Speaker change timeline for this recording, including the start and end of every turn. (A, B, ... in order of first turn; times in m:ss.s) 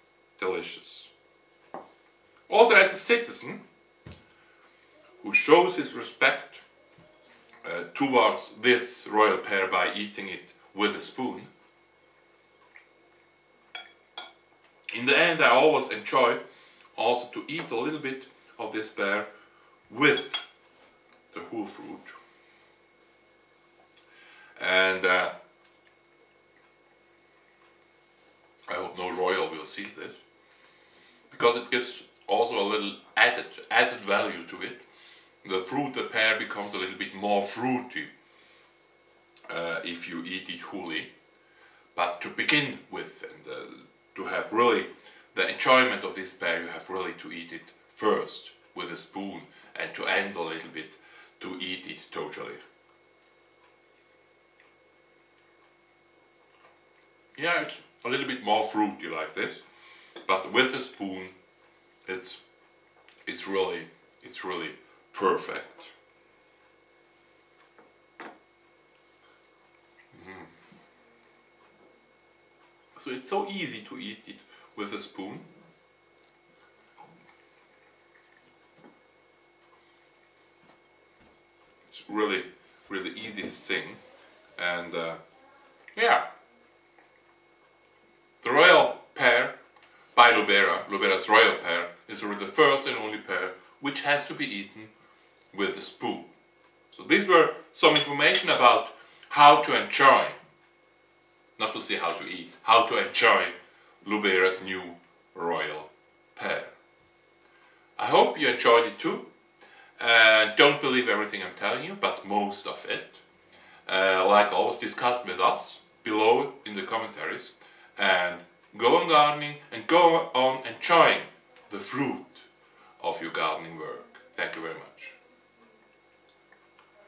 0:00.4-0:01.1 A
0:02.5-0:03.6 A
0:05.2-0:06.6 A
0:07.6-0:11.5 A
0:14.9-0:16.4 A
0:17.0-0:19.3 A
0:19.9-0:20.5 A
0:21.3-0:22.2 A
0:24.6-0:25.4 A
0:28.7-0:30.2 A
0:31.3-0:34.8 A
0:35.4-0:38.1 A
0:39.5-0:41.1 A
0:42.0-0:52.6 A
0:57.4-0:59.6 A
1:00.2-1:01.3 A
1:02.1-1:02.4 A
1:03.2-1:05.9 A
1:10.1-1:10.5 A
1:13.0-1:15.5 A
1:21.9-1:24.0 A
1:24.6-1:25.2 A
1:26.0-1:26.3 A
1:28.4-1:29.6 A
1:30.2-1:34.9 A
1:35.5-1:36.3 A
1:36.9-1:40.4 A
1:41.6-1:46.7 A
1:48.0-1:49.3 A
1:50.0-1:53.2 A
1:53.9-2:02.5 A
2:03.0-2:05.2 A